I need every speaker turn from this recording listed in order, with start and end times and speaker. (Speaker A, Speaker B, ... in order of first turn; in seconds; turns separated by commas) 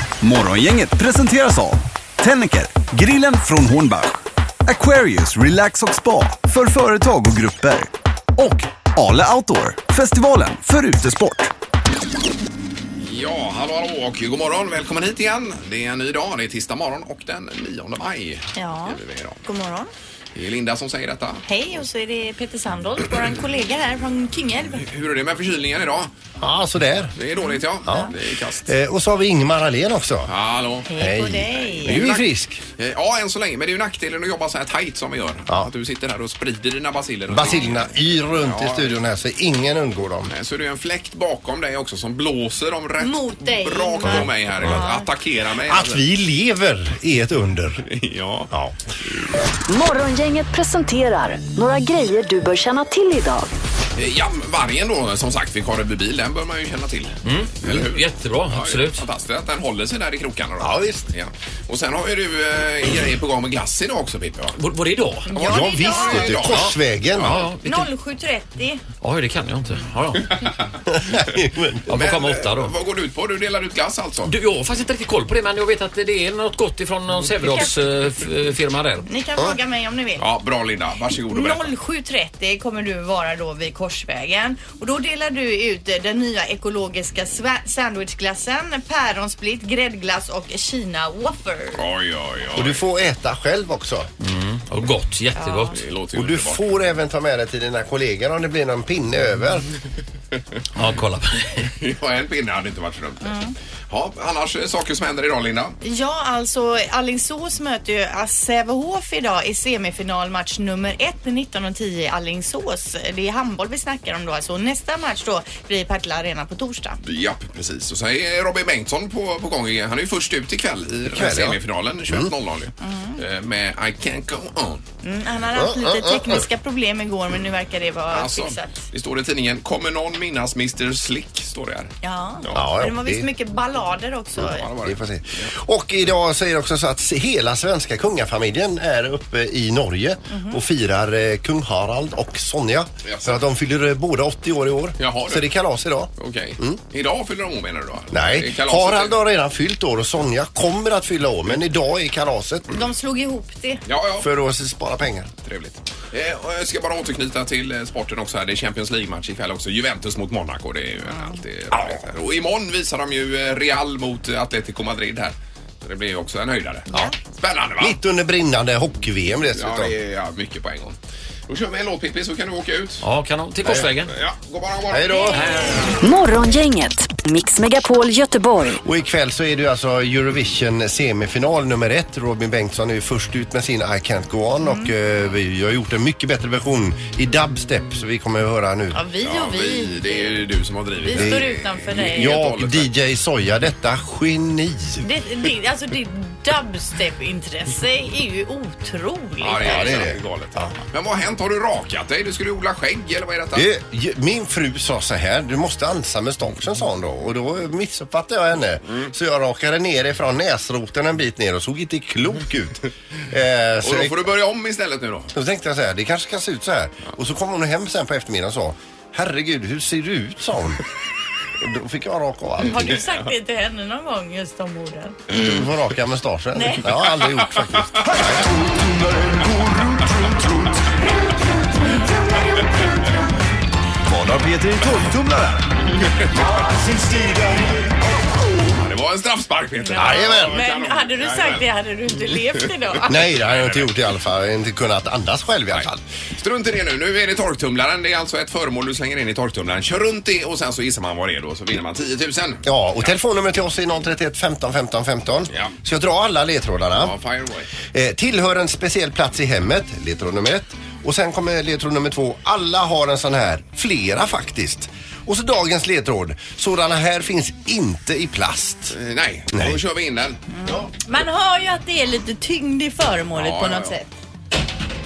Speaker A: 0.2-11.5, Speaker B: 13.0-19.4, Speaker C: 18.6-19.9, Speaker B: 20.4-21.4, Speaker C: 21.4-24.9, Speaker B: 24.8-26.1, Speaker D: 26.4-27.1, Speaker B: 27.2-28.7, Speaker C: 27.5-28.1, Speaker D: 27.9-28.1, Speaker D: 28.7-30.3, Speaker B: 30.3-30.9, Speaker C: 30.9-32.0, Speaker D: 31.0-32.6, Speaker B: 31.7-39.0, Speaker D: 37.3-40.3, Speaker B: 40.3-46.0, Speaker C: 43.0-45.1, Speaker D: 44.0-44.8, Speaker D: 45.7-47.8, Speaker B: 47.9-48.5, Speaker E: 49.7-53.5, Speaker B: 54.0-64.6, Speaker F: 57.2-59.0, Speaker D: 60.6-61.1, Speaker F: 64.5-65.3, Speaker C: 65.3-66.4, Speaker D: 65.3-67.4, Speaker B: 65.8-67.5, Speaker F: 67.2-67.9, Speaker C: 67.6-68.8, Speaker F: 69.0-70.3, Speaker B: 70.2-71.3, Speaker D: 70.9-71.8, Speaker F: 71.9-72.8, Speaker B: 71.9-74.3, Speaker F: 74.2-79.1, Speaker C: 77.4-77.8, Speaker C: 79.1-80.2, Speaker B: 80.2-81.7, Speaker C: 81.3-91.8, Speaker B: 91.8-92.8, Speaker D: 92.6-94.1, Speaker F: 94.2-95.8, Speaker C: 95.4-95.8, Speaker B: 95.7-96.6, Speaker D: 96.1-99.7, Speaker F: 100.8-101.5, Speaker B: 101.6-103.3, Speaker C: 103.2-103.5, Speaker B: 103.9-105.8, Speaker C: 105.8-117.0, Speaker B: 117.0-124.8, Speaker D: 121.1-122.3, Speaker C: 122.8-123.2, Speaker C: 125.0-128.8, Speaker D: 125.5-126.5, Speaker B: 128.1-131.9, Speaker C: 132.0-134.7, Speaker D: 132.5-133.3, Speaker B: 134.4-135.5, Speaker D: 134.7-146.8, Speaker C: 140.3-140.6, Speaker B: 143.1-143.4, Speaker B: 145.0-145.5, Speaker B: 146.2-149.2, Speaker D: 148.1-152.7, Speaker C: 152.7-153.8, Speaker B: 153.9-154.3, Speaker D: 154.2-155.3, Speaker B: 155.4-168.0, Speaker C: 161.1-161.4, Speaker D: 167.8-169.9, Speaker B: 169.5-171.0, Speaker B: 171.5-173.1, Speaker F: 173.0-174.1, Speaker B: 174.1-175.4, Speaker D: 174.9-175.5, Speaker F: 175.3-175.9, Speaker E: 176.0-178.8, Speaker D: 178.8-189.0, Speaker C: 184.6-184.9, Speaker C: 188.9-190.4, Speaker B: 189.2-192.9, Speaker C: 191.0-192.4, Speaker D: 191.2-191.4, Speaker D: 192.1-195.1, Speaker C: 195.0-199.9, Speaker B: 199.4-203.7, Speaker D: 199.6-200.7, Speaker D: 203.6-214.3, Speaker B: 208.9-209.1, Speaker B: 213.8-215.3, Speaker D: 215.3-220.8, Speaker D: 221.6-223.0, Speaker C: 222.6-225.2, Speaker D: 225.3-228.5, Speaker C: 226.6-226.8, Speaker A: 228.6-230.8, Speaker A: 234.0-235.7, Speaker A: 236.6-237.8, Speaker B: 238.8-241.7, Speaker C: 239.8-243.2, Speaker D: 239.9-240.6, Speaker B: 242.5-243.9, Speaker D: 243.1-246.0, Speaker B: 245.7-253.2, Speaker D: 252.7-257.1, Speaker B: 257.0-257.7, Speaker D: 257.9-268.9, Speaker B: 268.9-270.4, Speaker D: 269.5-269.8, Speaker C: 270.5-274.1, Speaker D: 270.6-270.9, Speaker B: 273.4-274.0